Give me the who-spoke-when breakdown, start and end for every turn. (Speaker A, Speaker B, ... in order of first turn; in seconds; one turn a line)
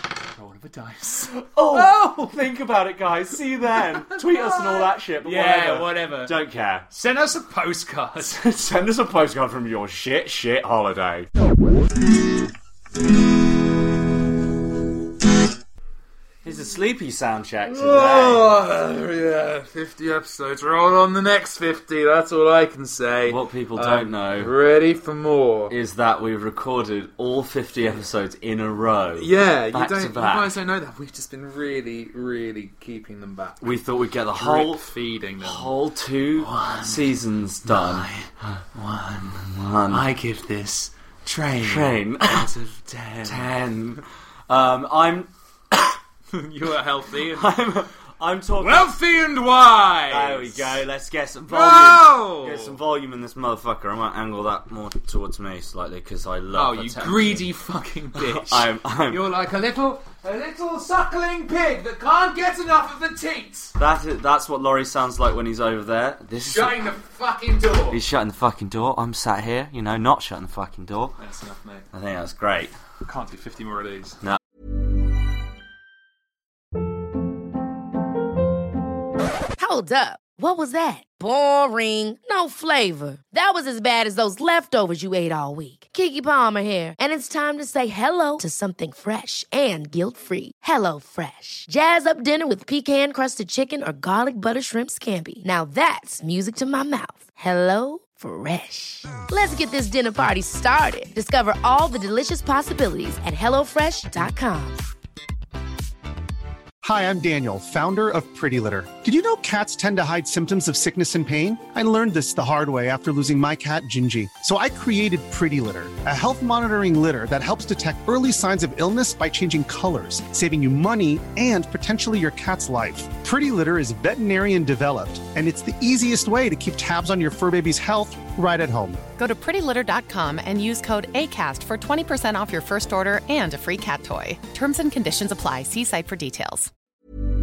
Speaker A: 0.3-2.2
Speaker B: 1.3-6.9
Speaker A: 4.1-6.4
Speaker A: 6.9-8.4
Speaker B: 8.3-11.3
Speaker B: 16.4-18.6
Speaker A: 17.7-25.7
Speaker B: 23.3-24.6
Speaker B: 25.7-30.6
Speaker A: 29.2-33.7
Speaker B: 33.6-34.9
Speaker A: 34.3-35.8
Speaker B: 35.4-38.6
Speaker A: 36.4-43.5
Speaker B: 39.5-40.1
Speaker B: 41.6-42.5
Speaker B: 43.2-45.3
Speaker A: 46.3-47.6
Speaker B: 47.3-49.0
Speaker A: 48.6-50.8
Speaker B: 50.1-57.5
Speaker A: 51.5-52.8
Speaker A: 56.5-63.8
Speaker B: 58.1-59.3
Speaker B: 63.8-66.9
Speaker A: 66.4-68.0
Speaker B: 67.9-71.2
Speaker A: 71.2-71.9
Speaker B: 71.9-72.8
Speaker A: 73.0-74.2
Speaker C: 79.6-104.8
Speaker D: 106.8-129.0
Speaker E: 129.2-136.7